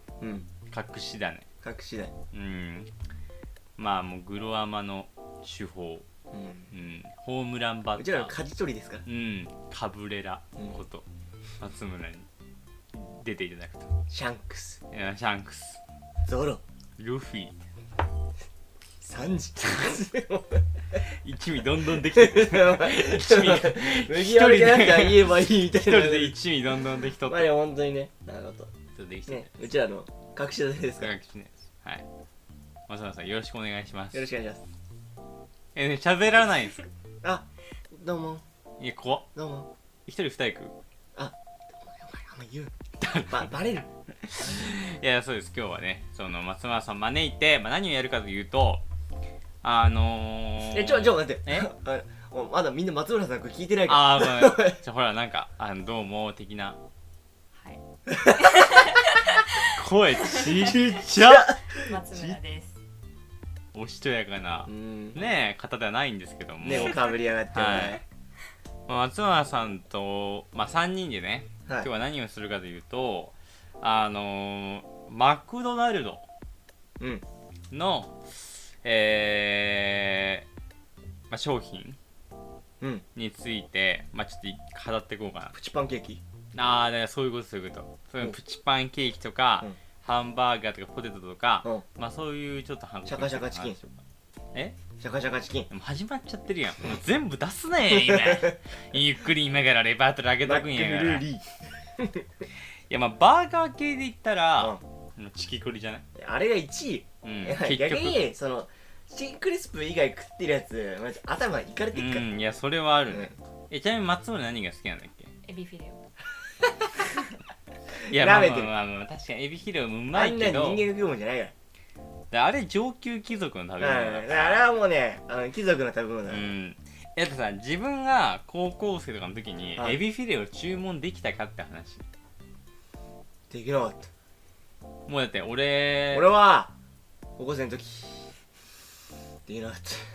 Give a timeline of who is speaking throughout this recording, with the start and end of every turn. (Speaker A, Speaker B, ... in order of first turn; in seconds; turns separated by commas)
Speaker A: 0.2-0.5, Speaker B: 0.7-1.5, Speaker A: 1.6-2.1, Speaker B: 2.3-2.9, Speaker B: 3.8-6.1, Speaker A: 6.3-6.7, Speaker B: 6.7-8.3, Speaker A: 8.0-9.1, Speaker B: 9.1-11.1, Speaker B: 11.6-12.3, Speaker B: 12.9-13.9, Speaker A: 14.1-14.8, Speaker B: 14.9-15.8, Speaker A: 16.3-16.6, Speaker B: 17.0-17.7, Speaker A: 19.0-20.6, Speaker B: 20.9-27.5, Speaker A: 22.1-26.4, Speaker A: 27.2-28.7, Speaker B: 28.9-29.6, Speaker A: 29.3-31.1, Speaker B: 31.0-32.1, Speaker B: 32.9-34.3, Speaker A: 34.1-34.6, Speaker B: 35.8-36.9, Speaker A: 37.2-38.4, Speaker B: 38.8-39.3, Speaker A: 39.4-39.7, Speaker B: 40.1-40.8, Speaker A: 41.9-43.9, Speaker B: 43.0-43.5, Speaker B: 44.3-48.8, Speaker B: 49.6-51.7, Speaker A: 50.7-54.8, Speaker B: 53.9-56.8, Speaker C: 57.6-57.8, Speaker A: 58.1-58.5, Speaker C: 58.4-59.4, Speaker B: 59.7-61.6, Speaker C: 60.4-60.8, Speaker A: 60.8-62.0, Speaker C: 61.7-62.8, Speaker B: 63.7-68.0, Speaker A: 64.7-65.2, Speaker A: 66.6-68.0, Speaker B: 68.9-76.2, Speaker A: 77.0-77.2, Speaker B: 77.7-78.2, Speaker B: 78.8-80.5, Speaker B: 81.3-82.0, Speaker A: 82.8-83.0, Speaker B: 83.2-85.5, Speaker A: 85.5-86.2, Speaker B: 86.5-94.0, Speaker A: 93.1-93.8, Speaker B: 94.5-94.8, Speaker A: 95.0-95.7, Speaker B: 95.7-101.3, Speaker A: 97.9-98.6, Speaker A: 100.4-102.2, Speaker B: 102.9-106.0, Speaker A: 106.2-112.3, Speaker B: 107.2-108.2, Speaker B: 111.9-115.3, Speaker A: 113.1-113.3, Speaker C: 115.4-116.0, Speaker A: 118.1-118.7, Speaker B: 118.1-120.9, Speaker A: 120.1-121.5, Speaker B: 122.3-124.7, Speaker A: 123.8-126.5, Speaker B: 126.3-132.1, Speaker A: 129.8-130.0, Speaker A: 133.5-134.1, Speaker B: 135.1-136.3, Speaker A: 136.1-136.7, Speaker A: 137.4-138.3, Speaker A: 139.5-140.1